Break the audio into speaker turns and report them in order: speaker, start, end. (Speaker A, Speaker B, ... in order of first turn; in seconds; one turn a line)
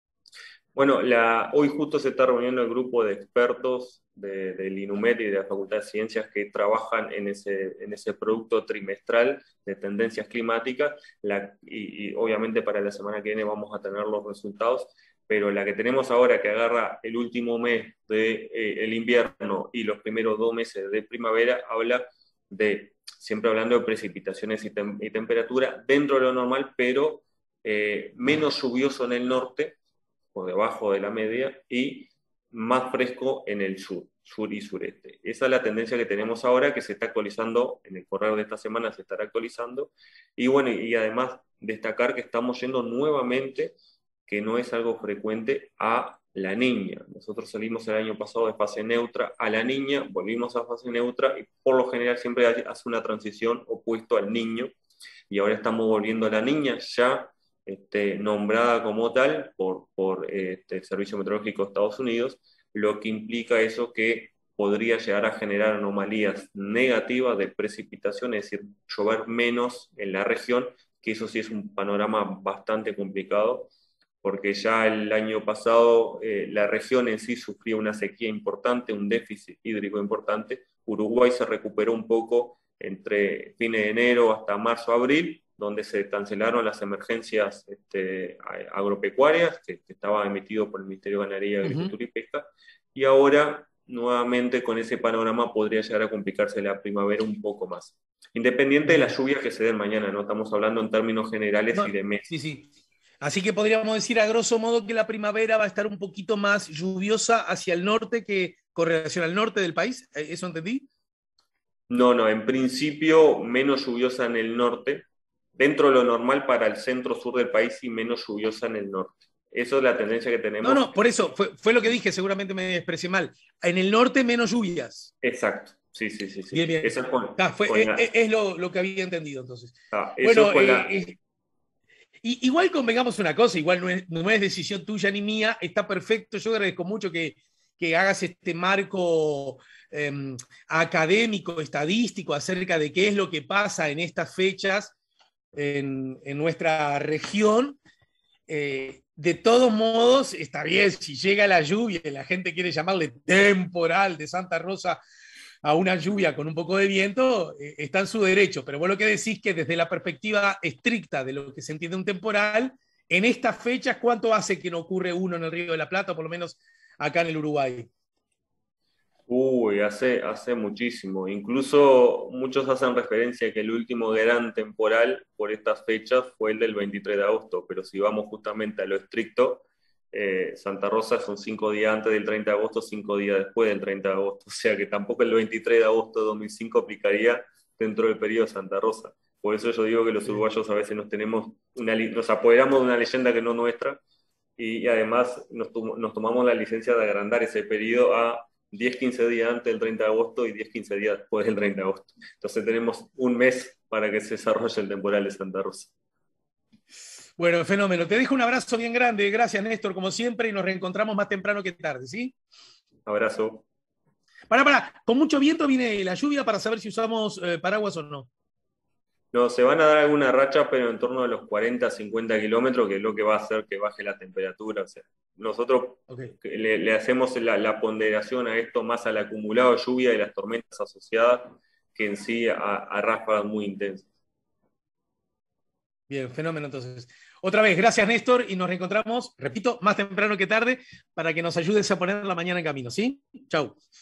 Speaker A: 0.8-29.8
Speaker A: 30.3-43.8
Speaker A: 44.3-54.7
Speaker A: 55.3-102.3
Speaker B: 91.6-91.9
Speaker B: 98.9-99.1
Speaker B: 101.7-110.9
Speaker A: 111.9-120.9
Speaker B: 120.6-125.1
Speaker A: 125.2-128.0
Speaker B: 126.5-131.2
Speaker A: 129.9-131.0
Speaker B: 132.2-144.9
Speaker B: 145.5-147.8
Speaker B: 148.5-155.0
Speaker B: 155.6-167.9
Speaker A: 169.3-194.0
Speaker A: 194.6-205.9
Speaker B: 207.4-212.3
Speaker A: 213.1-213.7
Speaker B: 214.5-218.3
Speaker A: 219.3-234.1
Speaker B: 236.1-243.8